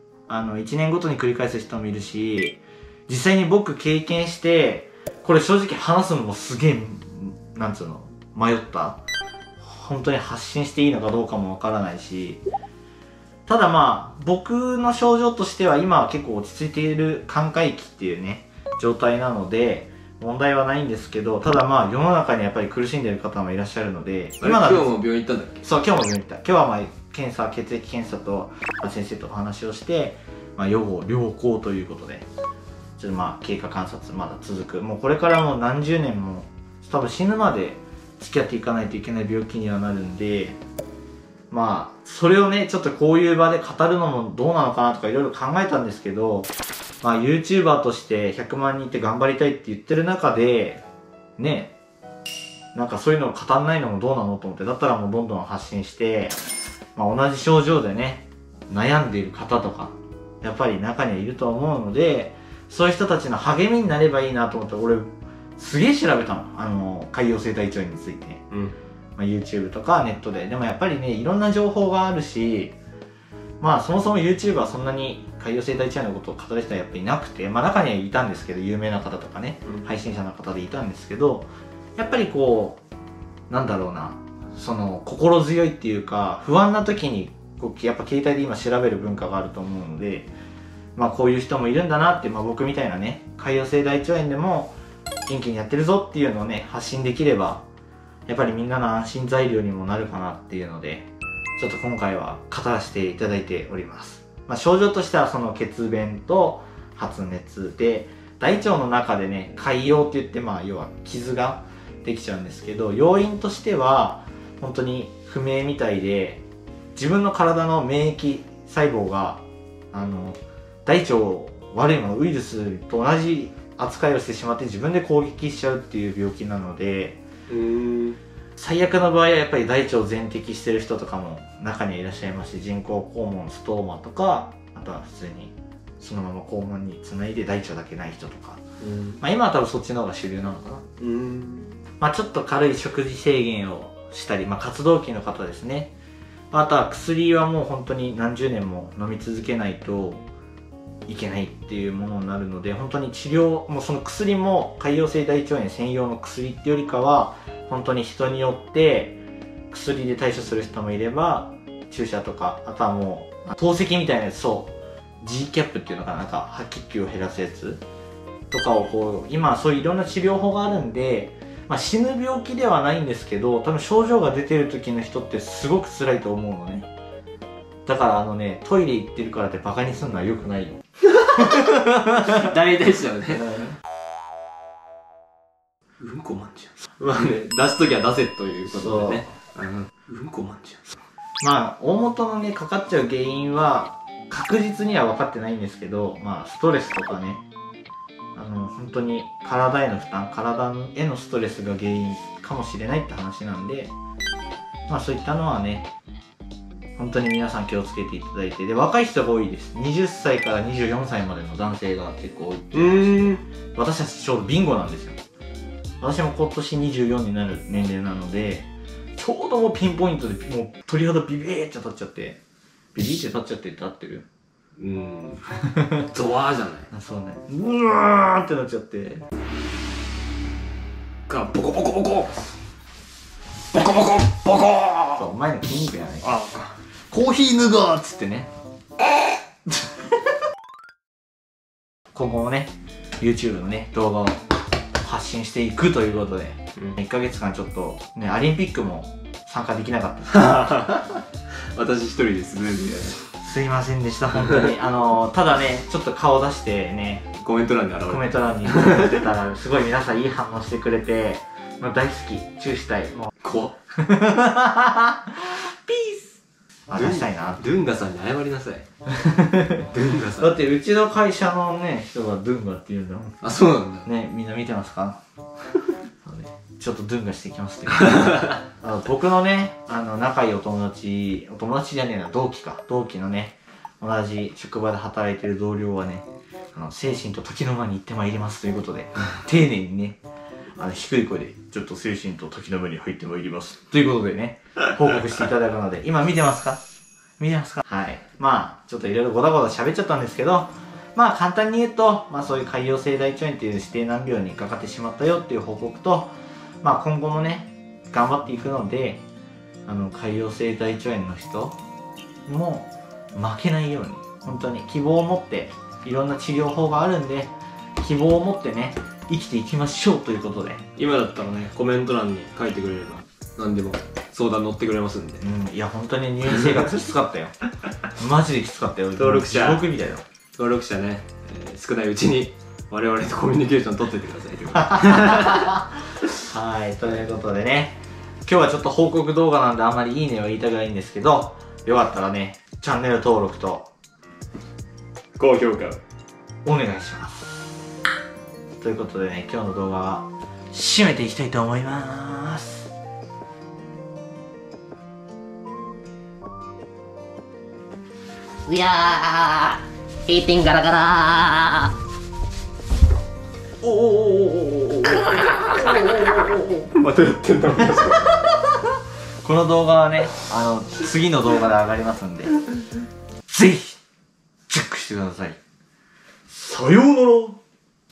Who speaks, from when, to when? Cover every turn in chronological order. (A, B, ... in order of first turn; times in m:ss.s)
0:00.3-0:09.0 A
0:09.6-0:12.4 A
0:13.5-0:24.9 A
0:24.4-0:25.6 B
0:25.6-0:32.3 A
0:33.0-0:40.6 A
0:41.5-0:46.5 A
0:47.0-0:50.8 A
0:51.4-0:51.7 A
0:52.7-0:56.4 A
0:57.0-1:08.4 A
1:08.5-1:08.8 B
1:09.2-1:12.8 A
1:13.6-1:22.8 A
1:23.5-1:30.3 A
1:31.0-1:37.6 A
1:38.3-1:56.4 A
1:57.0-2:07.2 A
2:07.5-2:08.2 B
2:08.6-2:18.6 A
2:18.8-2:19.2 B
2:19.2-2:20.8 A
2:21.0-2:21.8 B
2:22.0-2:25.9 A
2:26.5-2:30.2 A
2:31.1-2:39.2 A
2:39.7-2:47.8 A
2:48.5-2:56.9 A
2:57.9-3:00.8 A
3:01.2-3:03.7 B
3:01.6-3:01.9 A
3:06.0-3:10.9 B
3:08.7-3:09.2 A
3:11.4-3:17.4 A
3:18.4-3:23.9 A
3:24.9-3:25.9 A
3:27.0-3:35.2 A
3:32.7-3:33.4 B
3:36.0-3:42.4 A
3:43.0-3:44.3 A
3:44.8-3:45.5 B
3:45.7-3:46.0 A
3:46.1-3:46.9 B
3:46.9-3:49.3 A
3:51.3-3:52.4 B
3:53.7-3:55.3 B
3:55.2-3:56.3 A
3:56.2-3:56.8 B
3:57.1-3:58.5 A
4:02.1-4:04.4 A
4:05.0-4:10.6 A
4:10.3-4:13.2 B
4:13.4-4:17.3 A
4:17.4-4:19.2 B
4:18.1-4:23.3 A
4:23.4-4:23.8 B
4:24.0-4:27.6 A
4:26.9-4:28.8 B
4:29.1-4:29.9 A
4:29.9-4:30.5 B
4:30.4-4:33.4 A
4:33.4-4:34.1 B
4:34.0-4:35.2 A
4:36.2-4:50.2 A
4:50.8-4:56.8 A
4:57.4-5:09.2 A
5:09.9-5:11.8 A
5:12.5-5:20.8 A
5:21.0-5:25.4 B
5:25.4-5:30.2 A
5:29.2-5:29.9 B
5:30.6-5:35.7 B
5:34.8-5:35.8 A
5:36.4-5:43.9 A
5:45.4-5:46.0 B
5:46.6-5:47.7 A
5:48.8-5:52.9 A
5:58.7-6:01.9 C
6:03.8-6:06.5 A
6:06.9-6:08.4 B
6:09.4-6:12.6 A
6:13.5-6:14.0 A
6:14.7-6:15.6 A
6:16.5-6:17.6 A